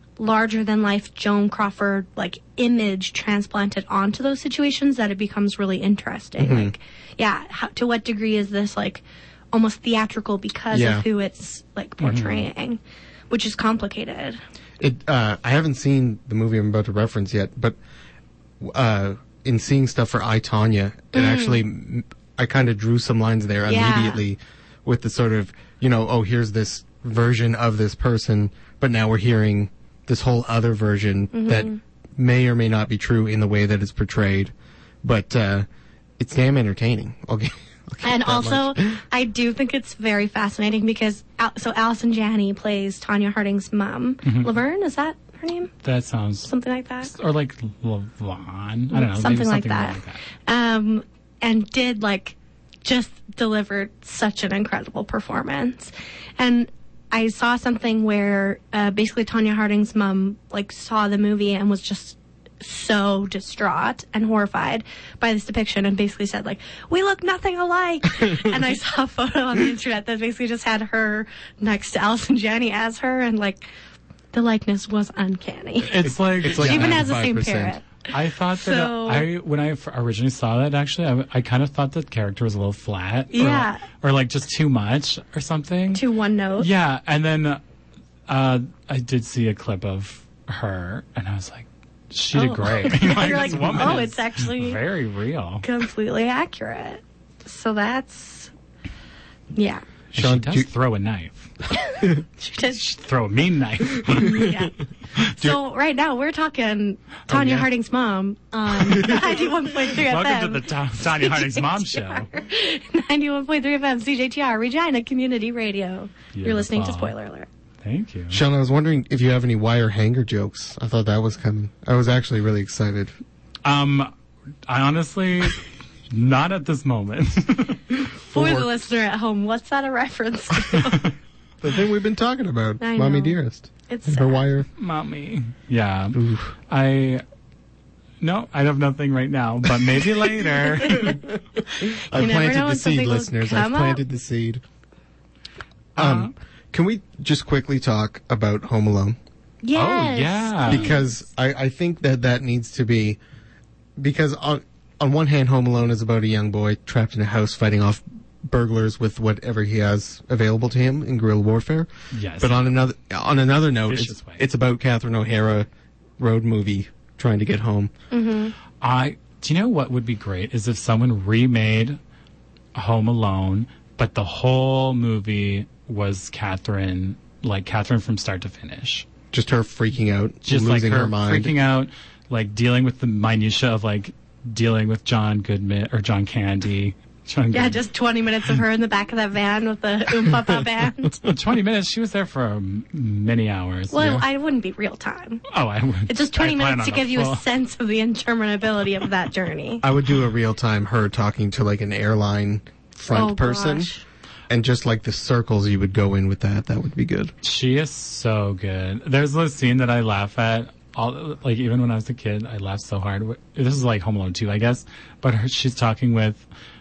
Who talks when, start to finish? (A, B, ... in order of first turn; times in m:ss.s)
0:00.2-0:14.4 A
0:06.4-0:06.7 B
0:10.7-0:11.0 B
0:12.0-0:12.5 C
0:14.8-0:17.8 B
0:18.6-0:35.6 B
0:21.1-0:21.6 A
0:23.7-0:24.2 A
0:31.3-0:31.8 A
0:36.2-0:39.0 B
0:38.0-0:45.7 A
0:44.2-0:44.5 C
0:45.8-0:46.5 C
0:46.4-0:47.1 A
0:47.0-0:50.2 C
0:48.9-1:13.6 A
1:14.3-1:17.9 A
1:15.9-1:17.2 C
1:16.0-1:17.8 B
1:18.1-1:26.0 C
1:18.5-1:19.3 A
1:23.3-1:23.8 A
1:25.9-1:26.7 A
1:26.6-1:27.6 C
1:28.3-1:35.6 C
1:32.3-1:34.8 A
1:33.6-1:33.9 B
1:35.6-1:38.5 A
1:39.5-1:39.8 A
1:40.1-1:40.7 B
1:40.1-1:41.5 C
1:42.4-1:42.8 A
1:42.8-1:44.5 C
1:44.1-1:44.7 A
1:45.4-1:57.5 A
1:47.3-1:47.7 B
1:48.8-1:49.3 B
1:50.0-1:52.3 C
1:56.3-1:57.1 C
1:57.8-1:58.4 C
1:58.3-2:03.1 B
2:03.6-2:04.1 C
2:04.7-2:08.0 C
2:08.3-2:11.1 A
2:08.3-2:08.7 B
2:11.6-2:14.7 B
2:12.8-2:13.4 A
2:13.9-2:14.4 A
2:14.8-2:17.2 C
2:16.1-2:16.5 B
2:18.2-2:21.2 C
2:20.8-2:21.2 A
2:20.9-2:24.6 B
2:21.8-2:24.0 A
2:26.0-2:26.3 C
2:26.0-2:29.2 B
2:29.6-2:31.1 A
2:29.7-2:30.9 C
2:30.7-2:33.2 B
2:34.0-2:41.9 B
2:42.1-2:42.6 C
2:42.4-2:45.7 B
2:43.9-2:44.4 C
2:46.2-2:47.9 B
2:48.1-2:48.5 A
2:48.8-2:52.0 C
2:52.8-2:59.1 C
2:59.3-3:01.5 B
3:00.5-3:07.8 C
3:07.5-3:11.2 A
3:11.3-3:14.2 C
3:13.9-3:15.4 A
3:15.5-3:17.4 C
3:16.1-3:19.8 A
3:19.8-3:23.9 B
3:23.1-3:24.0 A
3:24.5-3:27.3 B
3:27.4-3:36.5 C